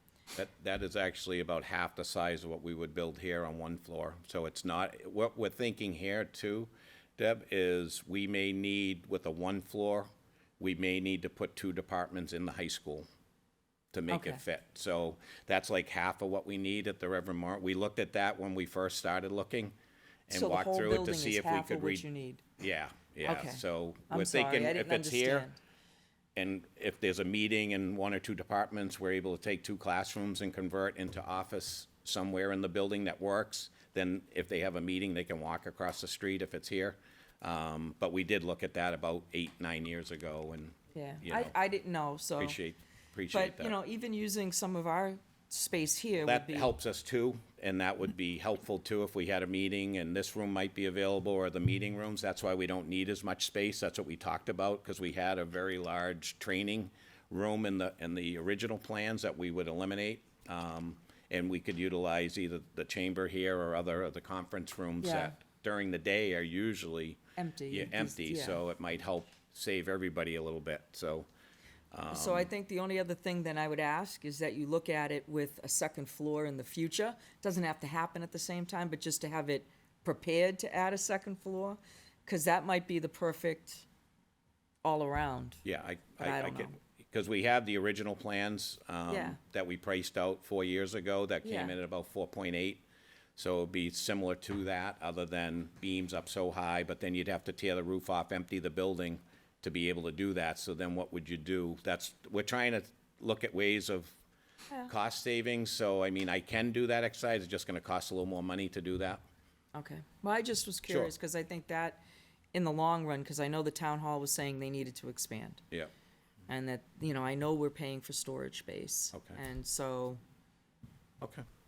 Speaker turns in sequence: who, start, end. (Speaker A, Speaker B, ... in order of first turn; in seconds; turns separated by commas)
Speaker A: 0.3-13.1, Speaker A: 13.9-19.7, Speaker B: 14.1-14.4, Speaker A: 20.3-22.1, Speaker B: 20.3-22.4, Speaker A: 22.6-25.5, Speaker B: 23.2-25.6, Speaker A: 26.4-41.5, Speaker B: 40.9-42.6, Speaker A: 42.4-43.7, Speaker B: 43.3-46.7, Speaker A: 46.3-71.3, Speaker B: 65.0-65.3, Speaker B: 67.4-68.6, Speaker A: 71.9-72.5, Speaker B: 72.1-83.9, Speaker B: 84.8-85.6, Speaker A: 85.7-92.8, Speaker B: 86.2-86.8, Speaker B: 89.1-89.4, Speaker B: 91.4-91.8, Speaker A: 93.4-104.2, Speaker A: 104.9-109.2, Speaker B: 109.7-112.0, Speaker B: 112.5-115.6, Speaker B: 116.5-120.2, Speaker A: 119.1-119.4